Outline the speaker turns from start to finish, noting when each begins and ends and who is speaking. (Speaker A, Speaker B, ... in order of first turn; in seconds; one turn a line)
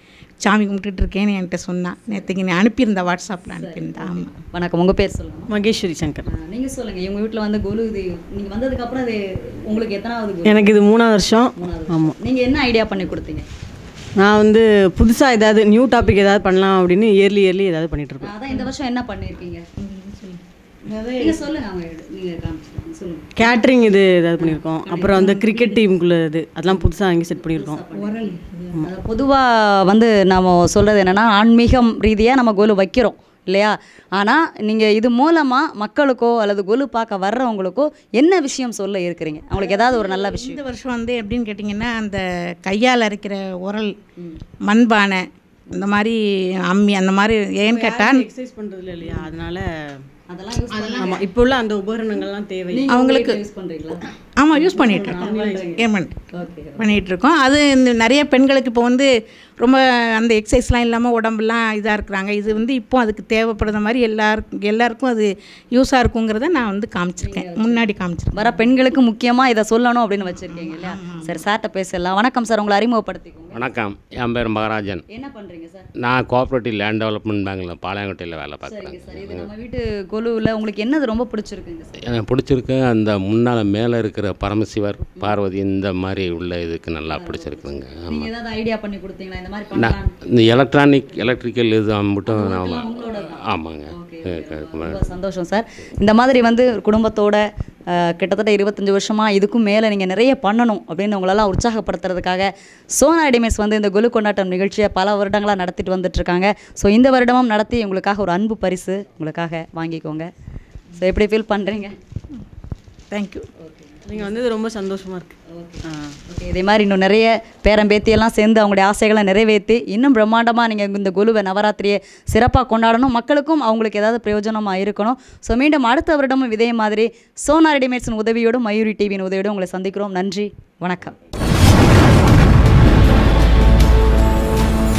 Speaker A: 0.4-4.3
Speaker B: 3.5-5.5
Speaker C: 5.5-6.2
Speaker B: 6.2-10.7
Speaker C: 10.4-12.2
Speaker B: 11.5-13.4
Speaker C: 14.2-18.3
Speaker B: 18.2-19.6
Speaker A: 19.8-20.4
Speaker C: 20.9-21.3
Speaker B: 21.2-23.5
Speaker C: 23.4-27.8
Speaker B: 24.4-25.8
Speaker B: 27.3-40.6
Speaker A: 27.9-28.9
Speaker A: 39.5-43.9
Speaker A: 44.6-48.3
Speaker C: 47.6-50.0
Speaker B: 50.3-51.2
Speaker C: 50.7-52.9
Speaker B: 52.7-54.1
Speaker A: 52.9-53.4
Speaker A: 54.4-68.6
Speaker B: 54.7-57.0
Speaker C: 54.8-55.8
Speaker B: 67.2-67.8
Speaker B: 68.3-73.6
Speaker A: 70.3-71.4
Speaker D: 73.5-75.0
Speaker B: 75.1-75.9
Speaker D: 76.0-79.5
Speaker B: 78.6-82.0
Speaker D: 82.0-88.3
Speaker B: 87.1-90.1
Speaker D: 89.7-95.0
Speaker B: 92.3-110.3
Speaker B: 111.0-111.9
Speaker A: 113.1-113.5
Speaker B: 113.6-114.3
Speaker C: 114.0-115.3
Speaker B: 115.5-131.1